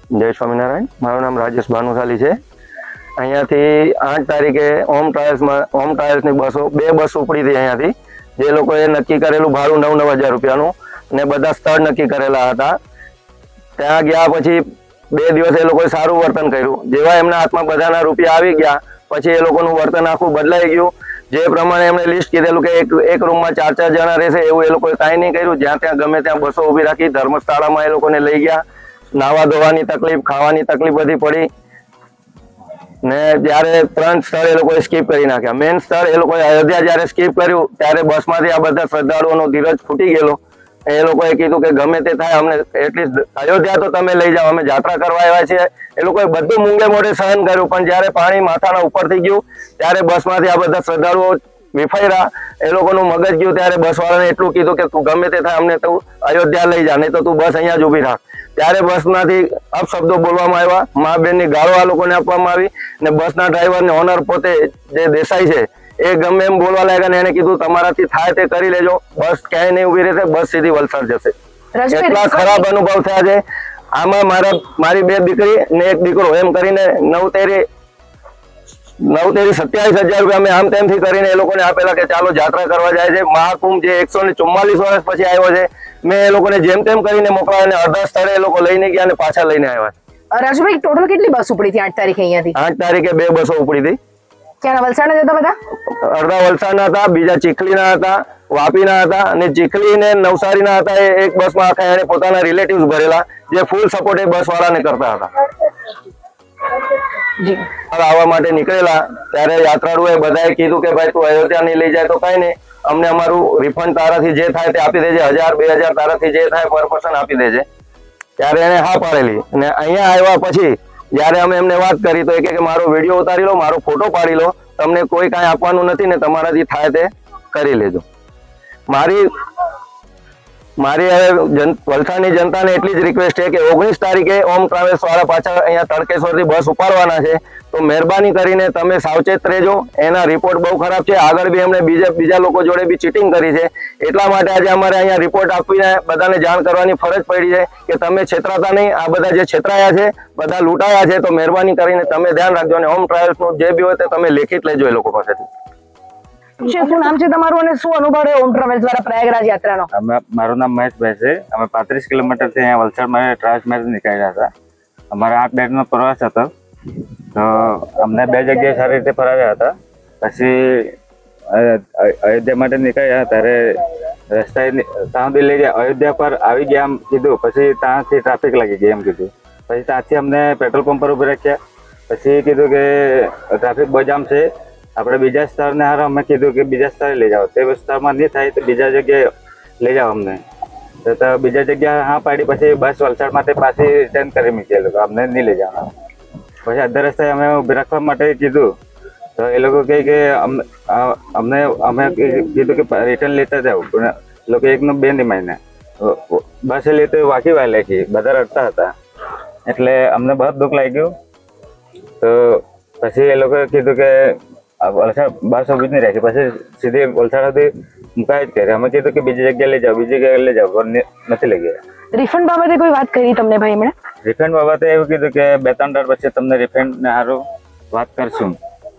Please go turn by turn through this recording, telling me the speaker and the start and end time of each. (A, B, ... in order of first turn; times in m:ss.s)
0:00.1-0:02.4 A
0:03.2-0:12.8 A
0:13.8-0:28.6 A
0:29.2-0:31.5 A
0:33.0-1:11.3 A
1:11.8-1:12.6 B
1:11.9-1:13.4 A
1:13.9-1:17.6 A
1:19.0-1:29.9 A
1:30.3-1:32.6 B
1:32.6-1:34.0 A
1:34.6-1:35.6 B
1:35.9-1:45.3 A
1:47.9-1:57.7 A
1:58.4-2:08.0 A
2:08.9-2:09.3 A
2:10.8-2:35.5 A
2:36.6-2:39.9 B
2:39.9-2:44.5 C
2:45.1-2:46.5 C
2:47.3-2:51.0 C
2:51.5-2:53.8 C
2:54.3-3:01.6 C
3:02.1-3:04.5 C
3:05.0-3:09.2 C
3:09.8-3:10.4 C
3:11.0-3:15.9 C
3:16.6-3:18.7 C
3:19.4-3:28.9 C
3:29.7-3:31.1 C
3:32.2-3:41.8 C
3:42.1-3:43.9 B
3:44.2-3:48.6 C